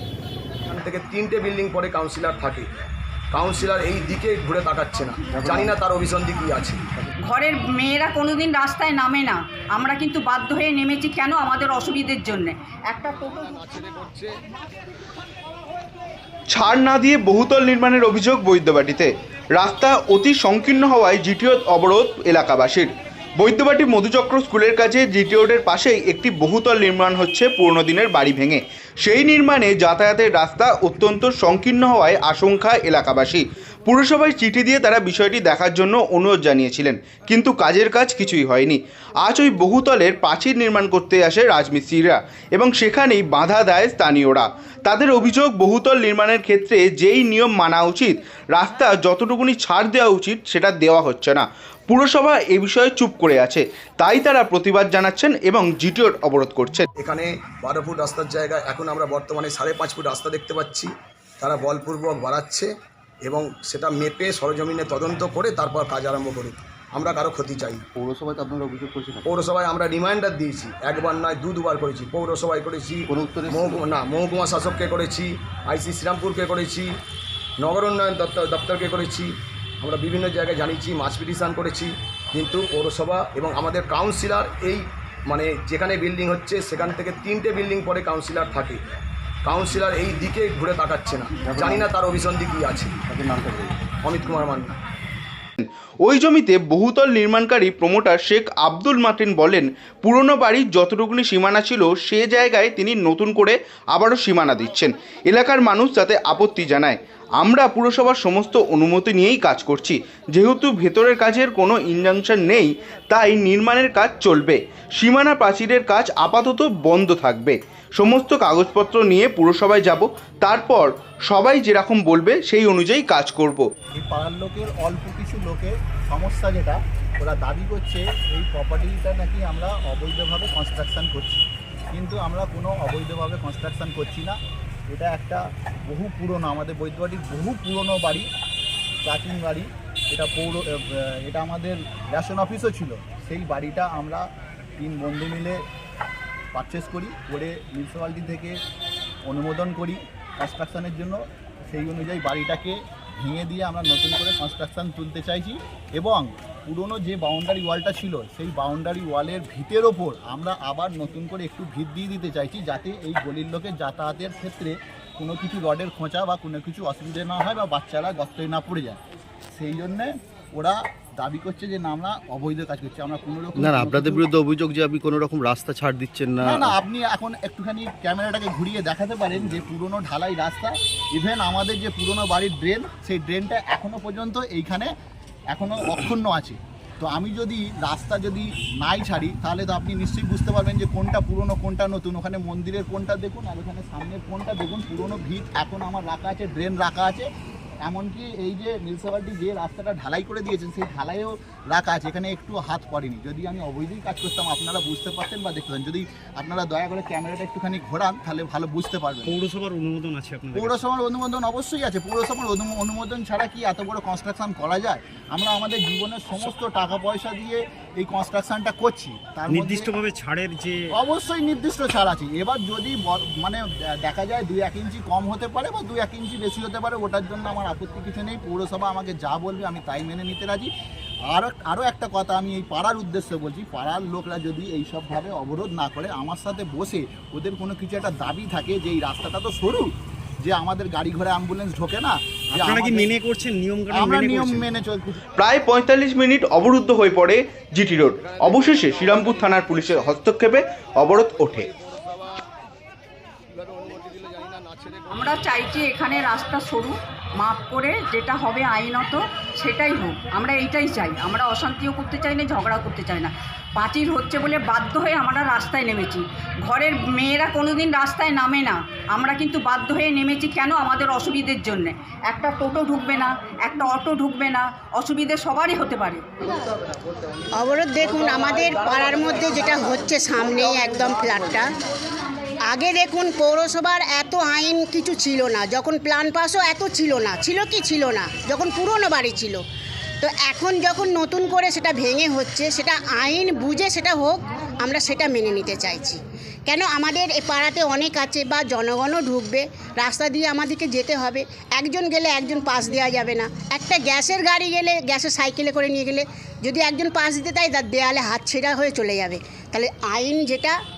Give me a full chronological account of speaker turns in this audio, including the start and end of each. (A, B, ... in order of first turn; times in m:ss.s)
0:00.7-0:02.7 A
0:03.3-0:06.9 A
0:05.3-0:05.7 B
0:07.2-0:13.5 C
0:13.4-0:14.3 A
0:16.5-0:56.9 D
0:57.0-1:00.9 A
1:01.4-1:02.7 A
1:03.3-1:07.8 A
1:08.0-1:09.4 B
1:09.3-1:16.9 A
1:13.1-1:13.9 B
1:17.6-1:28.8 A
1:29.4-1:33.0 A
1:31.4-1:31.9 B
1:33.1-1:33.8 B
1:34.0-1:34.7 A
1:35.6-2:03.7 D
2:03.9-2:14.4 E
2:14.9-2:18.3 E
2:19.0-2:24.3 E
2:24.8-2:25.6 E
2:26.5-2:28.6 E
2:29.3-2:49.0 E
2:49.5-2:54.3 E
2:53.6-2:56.8 B
2:56.4-3:04.9 E
2:59.3-2:59.6 B
3:05.5-3:17.3 E
3:17.8-3:29.4 E
3:29.3-3:30.8 F
3:30.5-3:39.9 E
3:39.5-3:40.8 F
3:41.0-3:50.7 E
3:51.3-3:59.9 E
4:00.4-4:03.1 E
4:02.6-4:04.7 F
4:03.9-4:05.2 E
4:05.4-4:11.7 D
4:08.2-4:10.3 A
4:11.5-4:12.5 A
4:13.5-4:15.7 A
4:15.1-4:36.3 C
4:37.6-4:41.7 G
4:42.7-4:49.6 G
4:50.2-5:10.8 G